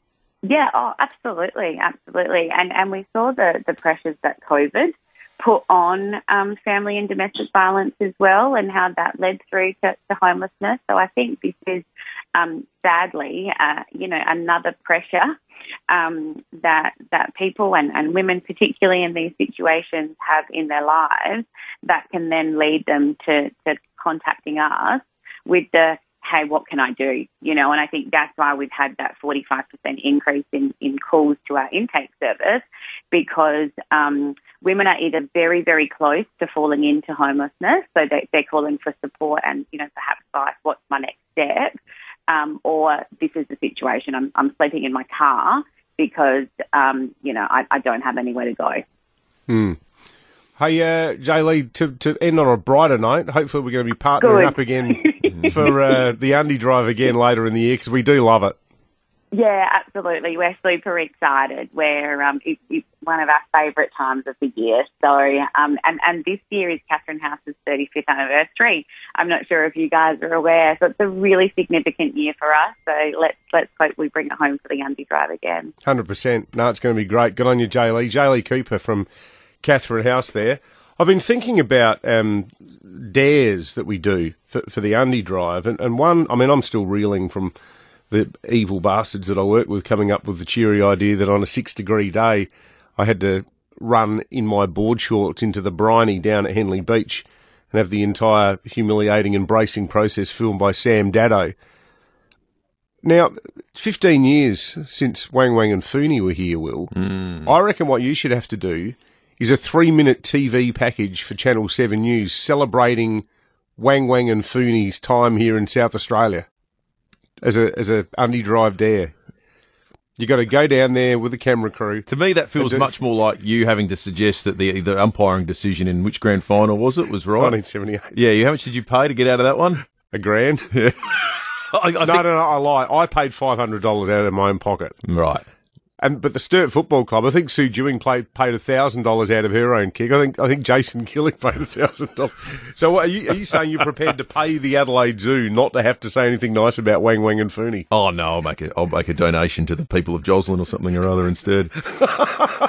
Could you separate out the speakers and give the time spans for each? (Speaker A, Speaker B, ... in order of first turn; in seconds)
Speaker A: 0.4-15.3, 15.9-41.8, 42.3-48.8, 54.2-55.9, 59.3-75.7
Speaker B: 49.5-49.8, 50.6-58.5, 75.8-79.1, 79.6-87.5, 88.1-101.5, 103.0-106.9, 107.4-113.2, 113.8-116.5, 117.4-119.1, 120.2-122.0, 122.6-122.9, 127.4-128.1, 130.1-130.7, 132.0-135.0, 136.0-147.9
Speaker C: 107.0-107.4, 122.0-127.5, 128.1-129.8, 130.7-132.2, 135.0-135.4, 147.9-151.7